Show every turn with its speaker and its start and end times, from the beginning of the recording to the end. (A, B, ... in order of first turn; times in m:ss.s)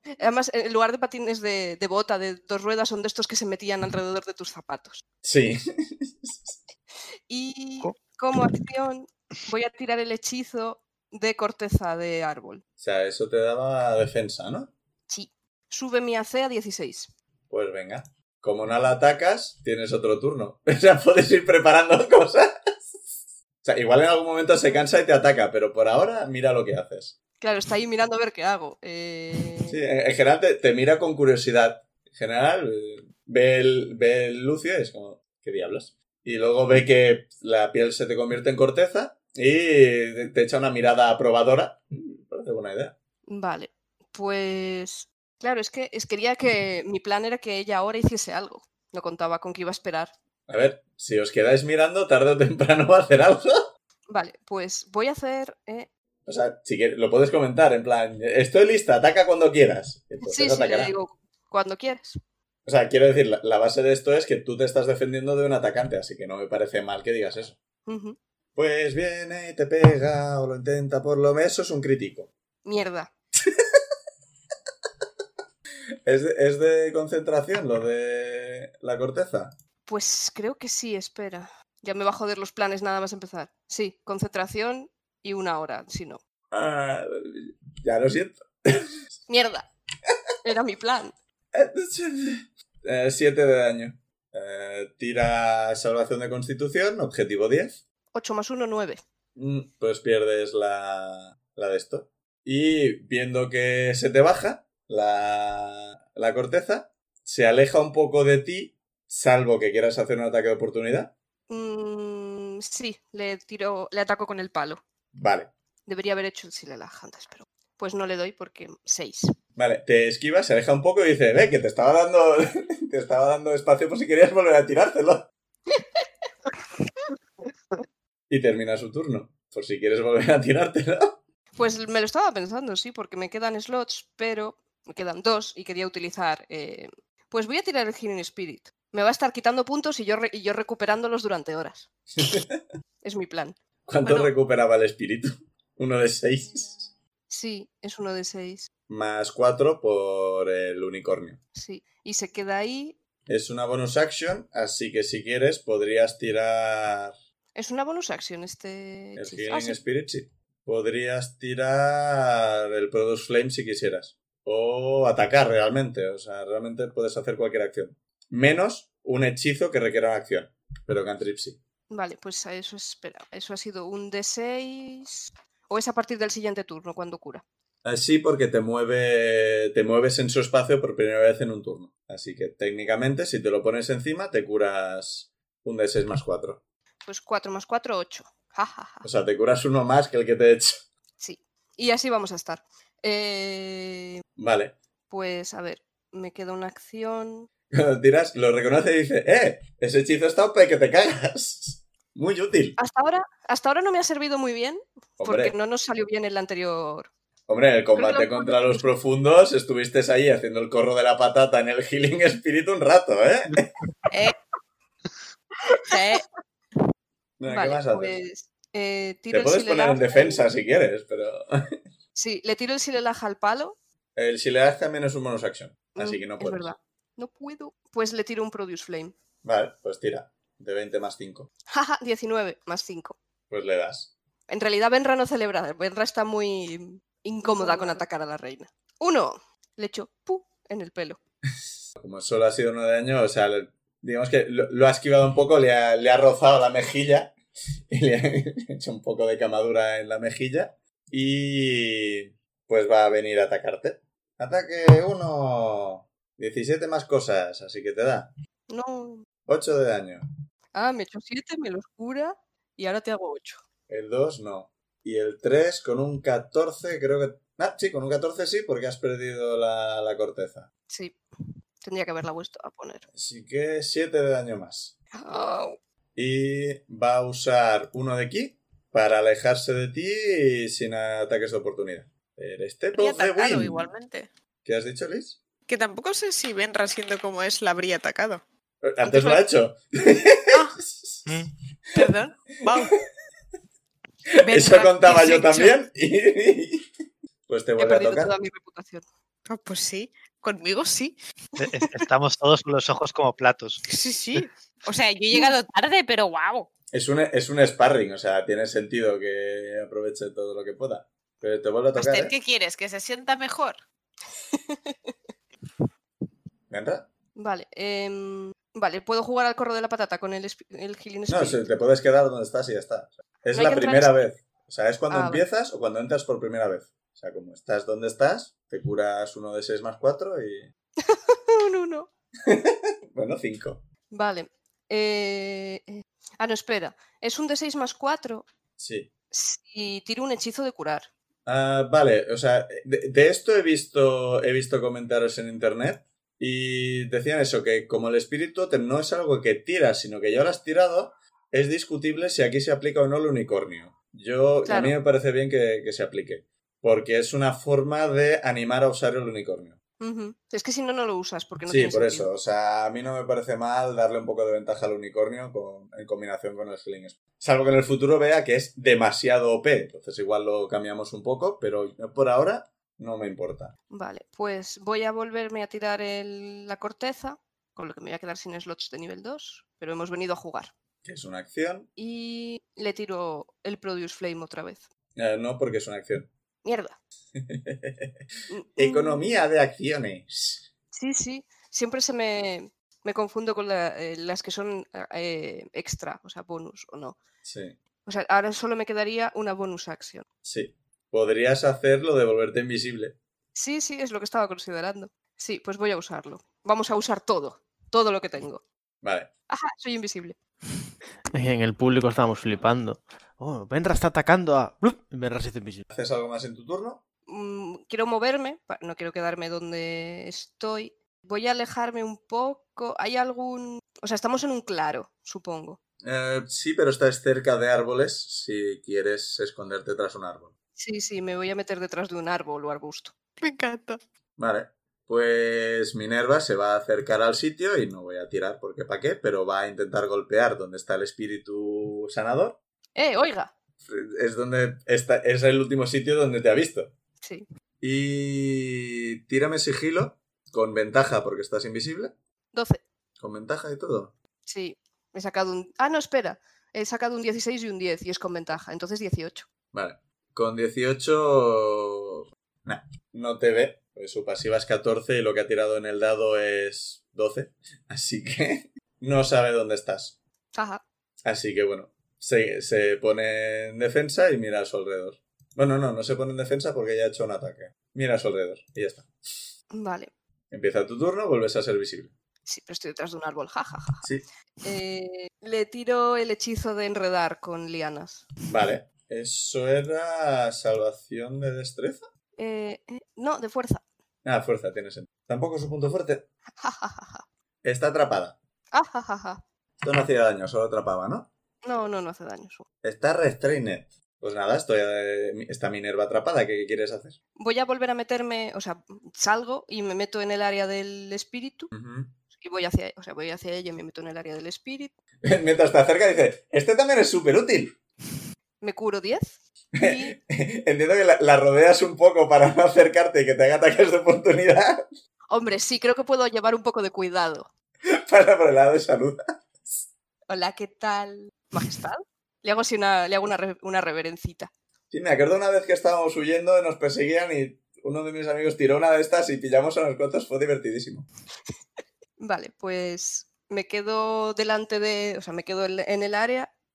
0:00.2-0:05.0 A
0:05.2-0:06.6 B
0:07.3-0:12.6 A
0:12.8-0:14.7 B
0:15.1-0:17.1 A
0:17.5-0:27.2 B
0:27.4-0:29.8 A
0:29.7-0:42.9 B
0:43.3-0:50.1 A
0:50.5-0:53.7 B
0:54.1-0:55.9 A
0:56.3-1:00.9 B
1:00.2-1:02.2 A
1:02.6-1:07.6 B
1:07.9-1:08.2 A
1:08.6-1:12.3 B
1:12.6-1:13.1 A
1:16.1-1:19.5 B
1:19.9-1:26.2 A
1:26.5-1:29.0 B
1:29.3-1:29.7 A
1:30.1-1:30.3 B
1:30.4-1:31.1 A
1:31.5-1:37.8 B
1:38.1-1:39.0 A
1:39.4-1:51.1 B
1:51.5-1:54.8 A
1:55.1-1:55.5 B
1:55.9-1:59.3 A
1:59.6-2:05.3 B
2:08.3-2:11.2 B
2:11.6-2:21.9 A
2:22.2-2:22.6 B
2:23.0-2:24.3 A
2:23.9-2:26.9 B
2:27.3-2:28.7 A
2:28.9-2:31.4 B
2:31.6-2:33.0 A
2:33.3-2:37.2 B
2:37.6-2:39.8 A
2:39.2-2:51.6 B
2:51.9-2:57.4 A
2:57.8-3:06.6 B
3:07.0-3:09.1 A
3:09.0-3:10.8 B
3:11.2-3:14.2 A
3:14.4-3:14.8 B
3:15.1-3:17.5 A
3:17.7-3:22.8 B
3:22.8-3:27.1 A
3:25.2-3:25.5 B
3:27.5-3:33.7 B
3:28.0-3:28.8 A
3:35.7-3:36.2 C
3:37.4-3:38.2 B
3:37.5-3:40.5 A
3:39.3-3:41.8 B
3:42.2-3:43.8 A
3:44.2-3:46.6 B
3:45.9-3:49.2 A
3:49.4-3:51.5 B
3:51.7-3:53.2 A
3:53.5-3:54.1 B
3:54.5-4:01.2 A
3:57.5-3:57.9 C
4:02.0-4:07.4 B
4:07.9-4:18.3 B
4:18.7-4:19.2 A
4:19.5-4:20.2 B
4:20.8-4:23.6 A
4:23.9-4:30.7 B
4:30.9-4:31.2 A
4:31.8-4:33.1 A
4:33.2-4:34.9 B
4:35.2-4:35.8 A
4:36.2-4:43.9 B
4:43.0-4:44.3 C
4:44.6-4:45.4 B
4:45.7-4:48.4 C
4:48.8-4:51.3 B
4:49.1-4:49.4 C
4:50.5-4:50.8 C
4:52.0-4:52.9 C
4:54.4-4:55.8 C
4:54.5-4:56.9 B
4:57.5-4:58.3 B
4:57.8-4:59.0 A
4:59.5-5:01.2 C
5:01.6-5:03.8 D
5:03.9-5:06.7 C
5:06.9-5:12.3 B
5:12.0-5:13.8 C
5:14.5-5:15.1 A
5:16.7-5:17.1 B
5:17.4-5:21.6 A
5:21.3-5:30.7 B
5:23.5-5:24.2 A
5:25.1-5:25.4 A
5:31.0-5:32.1 A
5:32.5-5:33.9 B
5:34.1-5:38.5 A
5:38.8-5:39.1 B
5:39.3-5:41.1 A
5:41.5-5:59.8 B
5:54.7-5:55.0 A
6:00.0-6:02.3 A
6:01.7-6:13.7 B
6:13.9-6:20.7 A
6:21.0-6:21.9 B
6:22.0-6:24.8 A
6:25.2-6:26.3 B
6:26.6-6:27.0 A
6:27.4-6:28.2 B
6:28.5-6:29.3 A
6:28.8-6:30.7 B
6:30.9-6:37.2 A
6:37.4-6:37.8 B
6:38.1-6:40.2 A
6:40.4-6:43.2 B
6:43.6-6:48.6 A
6:49.0-6:49.3 B
6:49.5-6:50.4 A
6:51.3-6:55.8 E
6:55.9-6:57.0 B
6:57.3-7:05.8 A
7:06.0-7:10.5 B
7:10.8-7:13.1 A
7:13.4-7:14.0 C
7:14.4-7:22.6 B
7:23.0-7:23.5 A
7:23.8-7:26.9 B
7:27.8-7:32.2 B
7:32.5-7:32.8 A
7:33.2-7:34.1 B
7:34.5-7:39.5 A
7:39.7-7:50.2 B
7:50.6-7:50.8 A
7:51.2-7:59.5 B
7:59.7-8:00.1 A
8:00.5-8:02.1 B
8:02.5-8:04.1 A
8:04.6-8:08.3 A
8:08.5-8:12.0 B
8:12.4-8:13.8 A
8:14.2-8:16.3 B
8:16.6-8:17.2 A
8:17.6-8:18.4 B
8:18.7-8:19.4 A
8:19.8-8:21.3 B
8:21.6-8:22.6 A
8:22.8-8:27.2 B
8:27.4-8:31.7 A
8:31.7-8:32.1 B
8:32.4-8:34.9 A
8:35.2-8:37.8 B
8:38.6-8:40.2 A
8:39.8-8:44.9 B
8:45.3-8:47.5 A
8:47.9-8:49.8 B
8:50.3-8:54.5 A
8:54.9-9:01.1 B
9:02.2-9:06.5 A